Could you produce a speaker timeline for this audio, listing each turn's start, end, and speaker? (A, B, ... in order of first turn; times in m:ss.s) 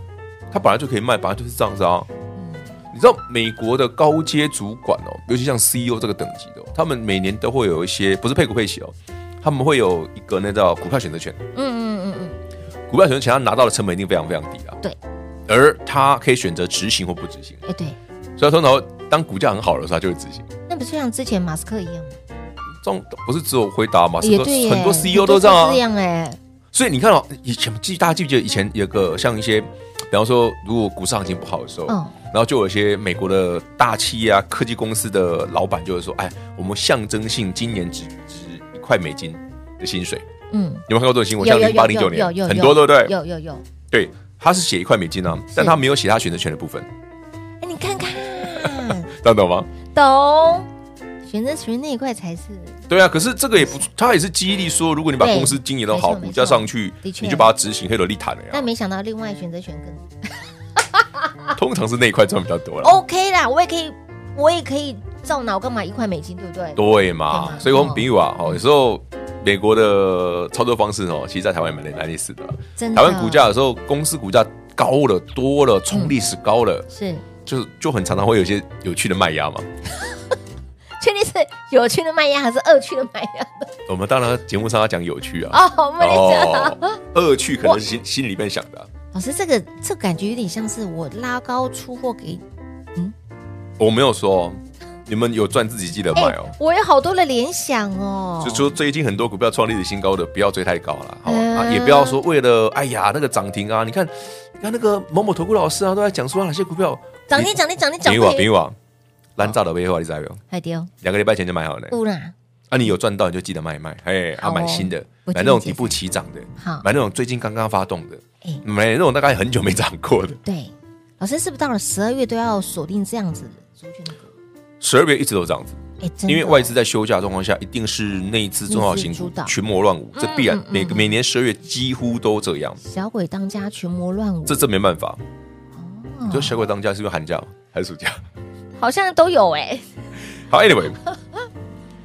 0:00.5-0:02.1 A
0:02.4-0:02.7 B
0:02.9-0:11.4 A
0:11.5-0:12.4 B
0:12.9-0:14.8 A
0:15.5-0:17.6 A
0:17.6-0:18.0 B
0:18.4-0:20.5 A
0:20.7-0:22.2 B
0:22.8-0:25.8 A
0:24.2-0:26.4 B
0:26.7-0:40.2 A
0:31.9-0:32.1 B
0:40.5-0:40.8 B
0:40.9-0:43.1 A
0:41.4-0:43.6 B
0:43.9-0:46.9 A
0:45.5-0:45.8 B
0:47.6-0:49.1 B
0:48.6-0:49.7 A
0:49.9-0:50.7 B
0:51.3-0:52.8 B
0:52.9-0:58.7 A
0:53.6-0:53.9 B
0:55.2-0:57.5 B
0:58.5-1:00.4 B
1:00.9-1:01.2 B
1:01.6-1:03.0 A
1:02.8-1:08.6 B
1:06.8-1:16.9 A
1:12.8-1:13.5 B
1:16.9-1:17.2 B
1:17.4-1:19.6 A
1:21.0-1:23.7 B
1:23.9-1:28.9 A
1:25.5-1:27.0 B
1:29.1-1:32.4 B
1:33.8-1:36.5 A
1:36.1-1:38.7 B
1:38.4-1:48.8 A
1:41.2-1:42.2 B
1:47.3-1:48.5 B
1:49.4-1:50.4 A
1:50.5-1:50.9 B
1:51.0-1:52.0 A
1:51.9-1:52.3 B
1:52.7-2:00.4 A
1:54.4-1:56.0 B
1:56.6-1:56.8 B
2:00.4-2:04.3 B
2:04.8-2:12.8 A
2:06.0-2:06.7 B
2:08.7-2:09.5 B
2:10.2-2:11.1 B
2:12.8-2:14.6 B
2:14.5-2:15.2 A
2:15.8-2:16.6 B
2:16.3-2:18.2 A
2:18.8-2:19.9 B
2:20.5-2:21.0 A